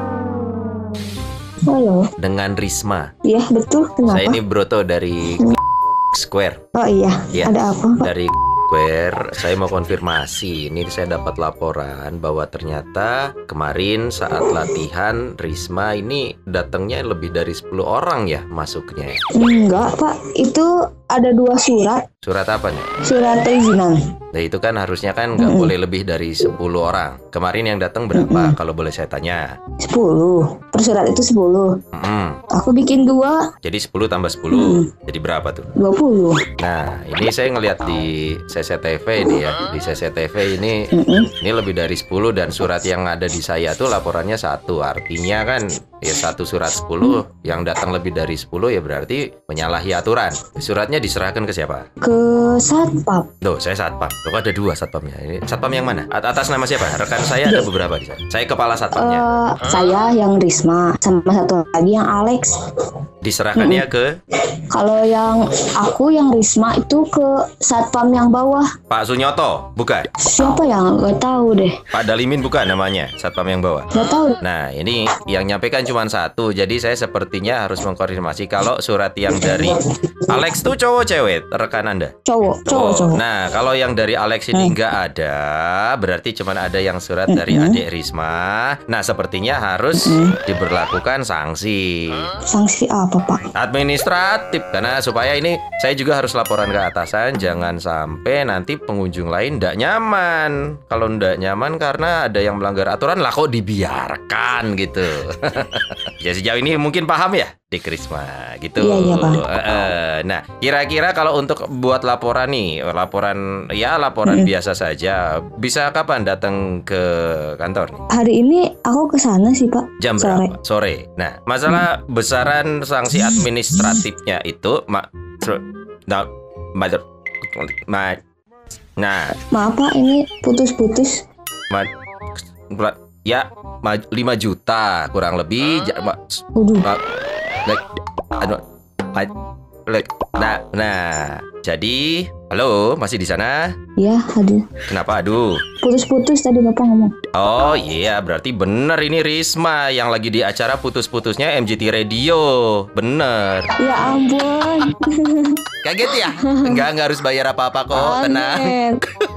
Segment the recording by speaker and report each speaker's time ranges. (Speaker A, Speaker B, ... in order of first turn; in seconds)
Speaker A: 1.7-2.1, 3.2-4.4, 6.7-8.1, 19.3-22.0, 23.0-24.0, 25.4-25.7, 28.1-28.6, 29.8-31.8, 32.5-33.4, 34.5-34.9, 35.8-36.4, 40.9-41.3, 52.0-53.3, 58.9-62.5, 63.5-63.9, 64.7-68.7, 70.2-71.8, 73.9-74.4, 79.3-79.8, 82.2-83.2, 87.3-87.8, 90.0-90.4, 92.4-93.5, 108.8-109.4, 114.2-114.5, 118.1-120.5, 129.5-131.2, 136.5-136.9, 144.0-144.7, 145.8-147.1, 153.8-156.8, 157.9-159.0
Speaker B: 2.2-3.1, 4.1-5.5, 6.1-6.6, 7.3-19.2, 22.2-22.9, 24.3-29.5, 31.9-32.4, 33.6-35.7, 36.6-40.8, 41.4-51.9, 53.4-59.3, 63.2-64.1, 68.9-70.1, 71.9-82.1, 82.7-92.3, 93.5-118.0, 120.0-128.2, 129.0-129.3, 132.7-137.0, 139.9-143.7, 144.9-145.6, 147.3-153.7, 155.8-158.8